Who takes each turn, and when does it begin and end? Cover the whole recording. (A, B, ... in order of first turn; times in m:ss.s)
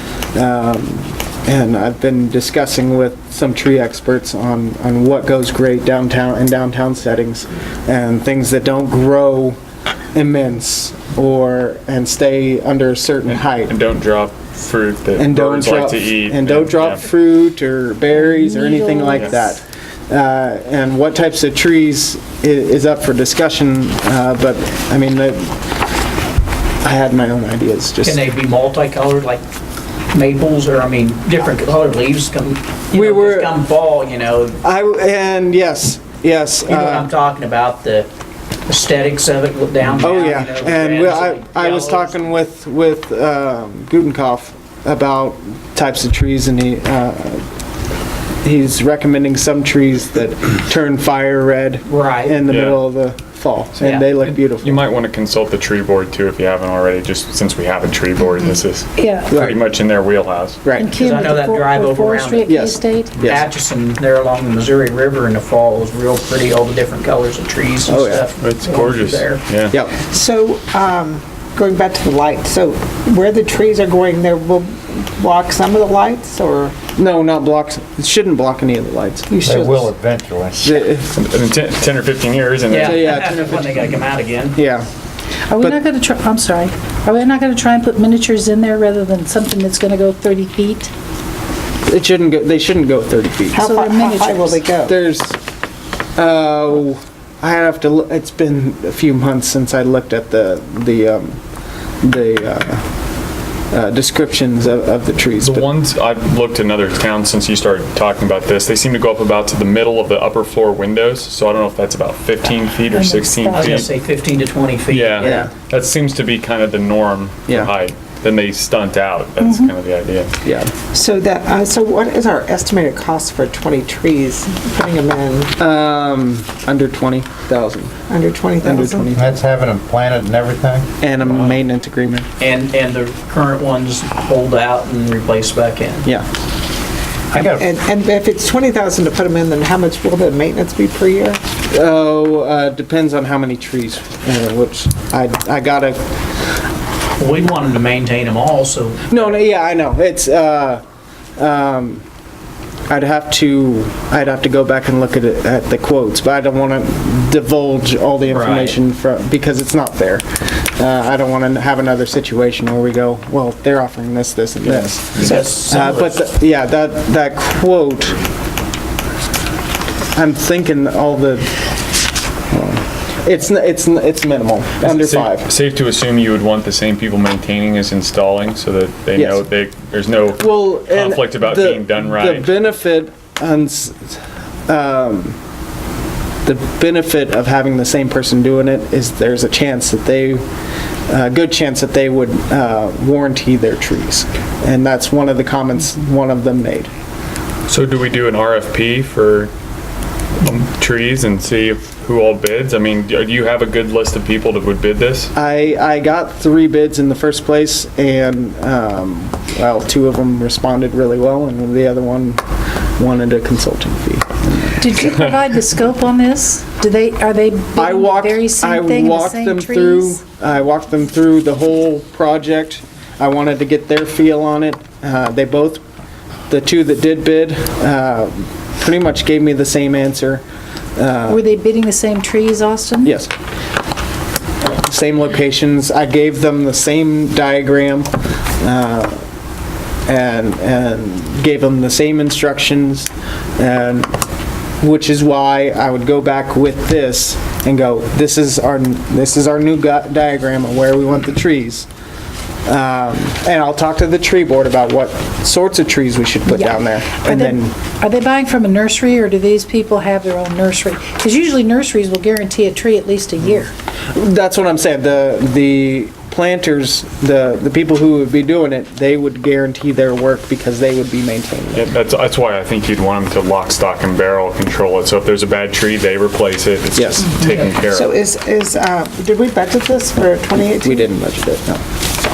0:00.3-0:09.6 A
0:10.2-0:13.8 A
0:13.3-0:17.0 B
0:15.2-0:25.6 A
0:18.1-0:19.6 C
0:26.8-0:28.3 A
0:28.0-0:29.4 D
0:30.1-0:34.6 D
0:32.9-0:33.6 A
0:34.6-0:37.1 A
0:36.6-0:38.1 D
0:38.7-0:42.4 D
0:39.9-0:47.4 A
0:48.4-0:54.8 A
0:51.8-0:52.4 D
0:52.5-0:52.8 B
0:53.8-0:54.1 D
0:54.2-1:00.7 B
0:59.0-0:59.4 C
0:59.3-0:59.6 A
1:00.6-1:00.9 A
1:00.8-1:03.2 C
1:00.9-1:02.5 D
1:02.5-1:03.5 A
1:03.2-1:09.4 D
1:07.8-1:08.2 A
1:08.4-1:09.7 B
1:09.7-1:10.0 A
1:10.0-1:16.8 E
1:16.9-1:19.3 A
1:19.3-1:19.9 E
1:19.4-1:20.8 F
1:20.6-1:21.1 A
1:21.1-1:23.4 B
1:22.7-1:24.6 D
1:22.8-1:24.9 A
1:25.5-1:30.9 C
1:31.9-1:33.7 A
1:33.5-1:34.9 E
1:33.6-1:34.6 C
1:34.9-1:35.4 A
1:36.2-1:41.4 A
1:42.0-1:42.9 A
1:43.7-1:45.7 A
1:45.4-1:53.9 B
1:52.9-1:53.8 C
1:53.5-1:55.5 D
1:54.9-2:00.3 B
1:55.2-1:55.5 A
1:57.5-1:57.7 A
1:59.4-1:59.7 C
2:00.4-2:00.7 A
2:00.9-2:05.5 E
2:05.6-2:07.9 A
2:08.1-2:09.1 E
2:08.6-2:09.3 A
2:09.1-2:11.5 F
2:11.0-2:12.3 A
2:12.4-2:16.1 D
2:17.3-2:17.6 F
2:17.6-2:21.4 E
2:21.7-2:26.0 A
2:27.2-2:29.3 D
2:29.1-2:30.8 A
2:31.4-2:32.0 A
2:32.9-2:48.2 A
2:38.2-2:38.8 D
2:44.8-2:46.2 D
2:50.1-2:51.5 A
2:52.5-2:55.5 A
2:54.8-3:02.5 B
2:59.1-2:59.5 A
3:00.4-3:05.4 A
3:06.4-3:10.4 A
3:11.1-3:16.9 A
3:17.7-3:19.5 B
3:20.4-3:25.3 B
3:25.3-3:32.4 A
3:33.0-3:34.8 A
3:34.8-3:40.2 C
3:37.8-3:45.8 A
3:46.5-3:50.4 A
3:51.0-3:51.4 A
3:51.3-3:53.2 C
3:53.0-3:53.3 A
3:54.7-3:59.2 A
4:00.1-4:04.1 A
4:04.8-4:11.9 A
4:12.7-4:17.7 A
4:16.5-4:23.7 C
4:24.1-4:31.9 A
4:31.7-4:38.1 B
4:37.0-4:37.4 A
4:37.9-4:41.1 E
4:40.8-4:41.8 A